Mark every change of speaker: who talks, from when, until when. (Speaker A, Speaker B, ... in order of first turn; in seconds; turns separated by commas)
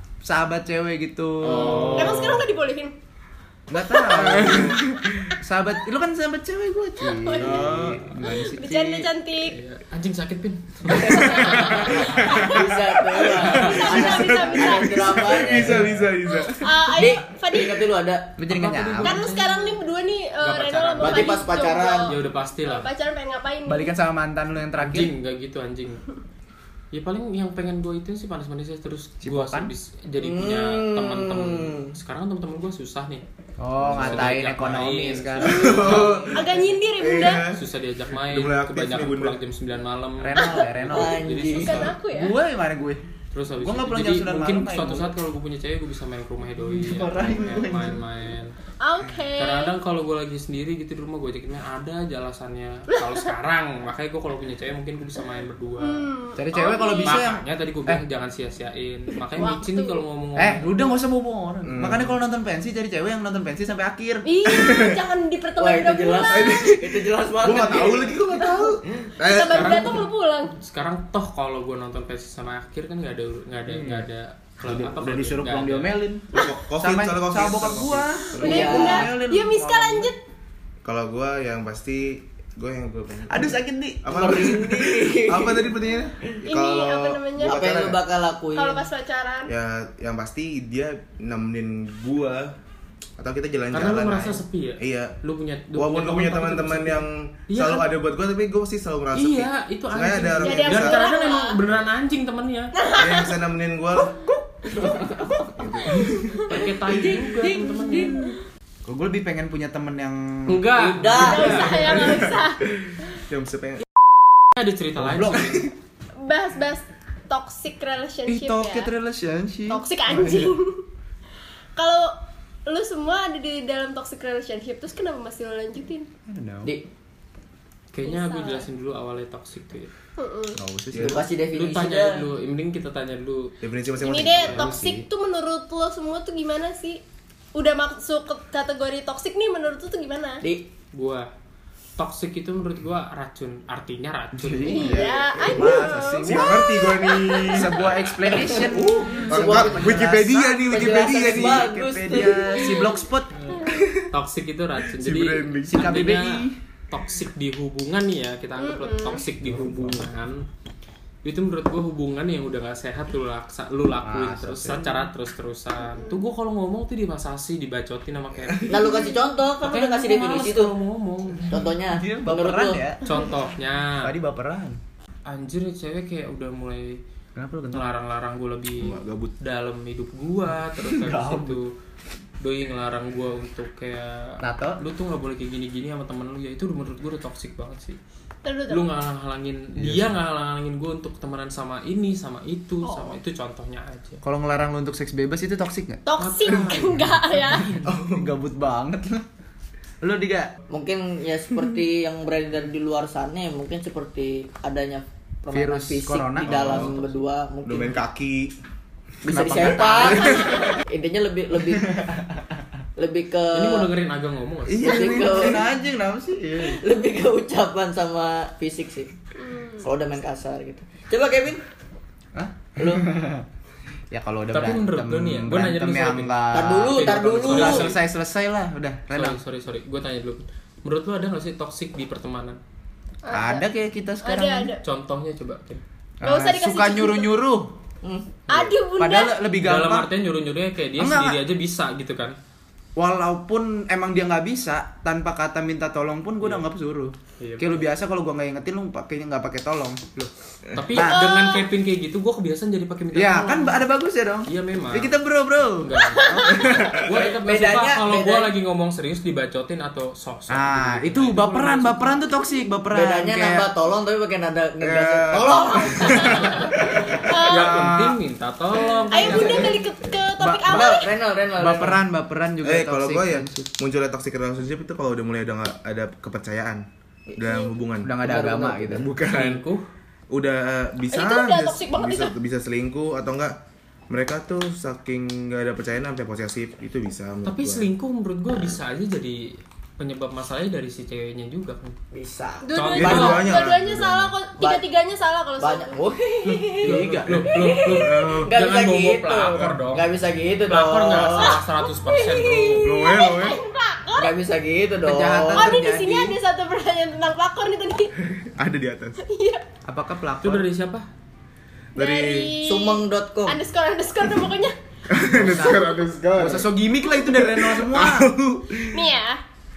Speaker A: 0.2-2.3, Speaker B: 1.4-2.4, Speaker C: 1.5-2.4, Speaker D: 1.9-2.9, Speaker A: 3.7-9.1, Speaker B: 4.1-5.3, Speaker D: 7.0-7.7, Speaker B: 7.4-8.0, Speaker D: 8.2-9.6, Speaker C: 9.4-12.6, Speaker E: 10.9-15.9, Speaker B: 11.1-16.9, Speaker D: 11.3-12.6, Speaker C: 13.3-14.1, Speaker D: 13.5-15.4, Speaker A: 15.5-16.0, Speaker D: 16.3-17.8, Speaker E: 16.9-18.3, Speaker A: 18.4-19.2, Speaker C: 18.5-19.8, Speaker D: 19.0-23.9, Speaker C: 20.4-21.4, Speaker E: 21.0-22.1, Speaker C: 22.1-22.9, Speaker A: 23.7-25.1, Speaker C: 24.8-26.0, Speaker C: 26.9-33.2, Speaker A: 29.2-29.7, Speaker E: 30.2-31.9, Speaker A: 33.6-36.1, Speaker B: 33.8-34.4, Speaker C: 33.9-36.4, Speaker B: 35.4-36.5, Speaker D: 35.4-37.5, Speaker B: 37.0-37.6, Speaker C: 37.5-42.0, Speaker B: 38.2-39.4, Speaker A: 40.2-41.2, Speaker E: 40.9-41.9, Speaker D: 41.5-42.4, Speaker A: 42.1-43.0, Speaker C: 43.3-48.5, Speaker A: 43.6-45.1, Speaker A: 46.6-48.0, Speaker D: 48.8-49.7, Speaker C: 49.4-56.0, Speaker D: 55.8-57.2, Speaker A: 56.4-58.0, Speaker C: 57.0-61.0, Speaker D: 59.4-60.0, Speaker A: 60.4-64.2, Speaker B: 61.6-62.1, Speaker D: 64.2-66.7, Speaker B: 64.5-65.0, Speaker E: 65.6-68.2, Speaker B: 66.3-70.0, Speaker D: 69.2-70.6, Speaker C: 69.5-70.0, Speaker C: 70.6-76.0, Speaker A: 73.7-74.1, Speaker A: 74.6-80.1, Speaker B: 76.3-78.8, Speaker D: 78.4-80.2, Speaker E: 78.4-79.1, Speaker B: 80.8-88.0, Speaker A: 83.3-84.3, Speaker E: 84.1-85.8, Speaker D: 86.5-87.6, Speaker E: 87.4-88.9, Speaker D: 88.5-89.5, Speaker B: 89.5-92.5, Speaker B: 93.2-95.2, Speaker C: 93.7-97.9, Speaker B: 95.7-101.0, Speaker C: 99.1-102.8, Speaker D: 100.4-101.6, Speaker D: 102.8-103.3, Speaker B: 103.0-104.2, Speaker E: 104.0-108.3, Speaker B: 105.5-106.5, Speaker C: 106.4-108.3, Speaker A: 108.8-111.1, Speaker C: 110.5-111.8, Speaker E: 110.8-112.1, Speaker D: 111.2-112.6, Speaker B: 111.7-113.8, Speaker C: 114.5-115.7, Speaker A: 115.0-115.6, Speaker D: 116.2-118.9, Speaker A: 118.3-120.5, Speaker D: 119.7-120.8, Speaker D: 121.8-122.1, Speaker D: 122.7-126.1, Speaker A: 126.3-126.7, Speaker C: 127.9-129.9, Speaker D: 128.1-128.7, Speaker D: 130.2-130.6, Speaker A: 130.6-131.2, Speaker B: 130.9-131.2, Speaker E: 131.0-132.2, Speaker C: 131.5-133.5, Speaker B: 133.6-134.9, Speaker D: 134.0-137.0, Speaker C: 134.4-134.7, Speaker D: 137.6-140.4, Speaker E: 140.4-140.7, Speaker C: 140.9-141.3, Speaker C: 142.0-145.1, Speaker A: 144.3-146.5, Speaker D: 144.7-147.7, Speaker B: 146.2-148.0, Speaker A: 147.5-153.3, Speaker E: 148.3-152.8, Speaker B: 149.3-151.7, Speaker C: 153.4-160.5, Speaker B: 153.7-154.1, Speaker B: 155.0-155.7, Speaker A: 155.5-156.6, Speaker D: 158.6-159.2, Speaker A: 159.4-160.1, Speaker C: 161.2-168.7, Speaker A: 164.0-165.1, Speaker E: 168.7-170.7, Speaker C: 169.6-171.6, Speaker E: 171.5-172.8, Speaker A: 171.9-173.0, Speaker C: 173.0-174.1, Speaker A: 174.0-174.8, Speaker C: 175.3-177.0, Speaker A: 177.4-177.9, Speaker C: 177.7-181.7, Speaker B: 178.8-179.3, Speaker A: 180.8-181.6, Speaker C: 182.4-188.0, Speaker A: 184.4-184.8, Speaker D: 188.4-188.9, Speaker C: 188.7-194.2, Speaker A: 189.8-190.1, Speaker D: 192.8-193.2, Speaker A: 194.2-196.0, Speaker D: 196.1-197.8, Speaker C: 196.2-197.9, Speaker B: 197.8-198.3, Speaker A: 198.0-199.2, Speaker A: 200.0-200.5, Speaker E: 200.7-208.0, Speaker A: 205.5-206.9, Speaker B: 206.4-207.0, Speaker B: 207.6-208.5, Speaker E: 209.2-212.2, Speaker A: 209.3-210.4, Speaker B: 209.6-210.5, Speaker D: 210.4-210.7, Speaker A: 211.9-212.5, Speaker E: 213.0-213.9, Speaker C: 213.5-215.2, Speaker B: 214.8-215.7, Speaker E: 214.8-215.7, Speaker A: 214.8-216.8, Speaker E: 216.6-219.1, Speaker D: 219.4-219.9, Speaker E: 219.8-221.6, Speaker A: 222.3-223.5, Speaker E: 222.8-223.1, Speaker A: 224.1-229.4, Speaker C: 224.5-228.0, Speaker E: 226.5-227.9, Speaker C: 229.1-232.6, Speaker D: 233.2-233.7, Speaker A: 233.3-234.8, Speaker D: 234.2-234.8, Speaker C: 234.8-235.8, Speaker A: 236.2-237.8, Speaker D: 236.2-237.3, Speaker E: 238.0-238.4, Speaker D: 238.5-239.4, Speaker A: 239.0-240.1, Speaker C: 239.5-242.4, Speaker A: 241.0-241.4, Speaker A: 243.0-250.0, Speaker C: 247.4-247.8, Speaker C: 250.2-253.8, Speaker D: 251.0-251.7, Speaker A: 253.1-256.8, Speaker C: 254.5-255.2, Speaker C: 255.8-262.2, Speaker B: 256.5-257.1, Speaker E: 256.9-258.6, Speaker A: 260.5-263.7, Speaker E: 262.9-267.2, Speaker B: 264.8-267.2, Speaker D: 267.2-267.9, Speaker C: 267.3-269.8, Speaker A: 267.5-268.2, Speaker D: 269.1-271.1, Speaker E: 269.1-269.8, Speaker A: 270.4-271.0, Speaker E: 270.7-272.0, Speaker A: 271.6-273.7, Speaker B: 272.6-278.2, Speaker D: 277.4-277.7, Speaker A: 278.0-279.1, Speaker E: 278.2-279.1, Speaker B: 279.0-279.6, Speaker C: 279.2-279.9, Speaker B: 280.3-283.6, Speaker D: 281.1-282.4, Speaker B: 284.1-287.9, Speaker C: 287.4-292.0, Speaker E: 292.1-293.4, Speaker D: 292.6-296.0, Speaker C: 292.7-293.5, Speaker B: 293.0-294.3, Speaker E: 294.6-294.9, Speaker E: 295.6-301.6, Speaker A: 296.6-297.5, Speaker C: 296.8-300.1, Speaker B: 297.9-298.5, Speaker C: 300.7-303.1, Speaker D: 301.4-304.4, Speaker B: 302.7-303.6, Speaker E: 304.2-305.7, Speaker A: 305.0-306.4, Speaker D: 305.5-308.1, Speaker B: 308.4-309.2, Speaker D: 309.2-309.6, Speaker A: 309.9-310.7, Speaker C: 310.4-311.1, Speaker B: 311.9-312.6, Speaker D: 311.9-314.7, Speaker E: 312.6-313.6, Speaker B: 315.1-319.1, Speaker A: 315.3-318.3, Speaker D: 318.9-319.4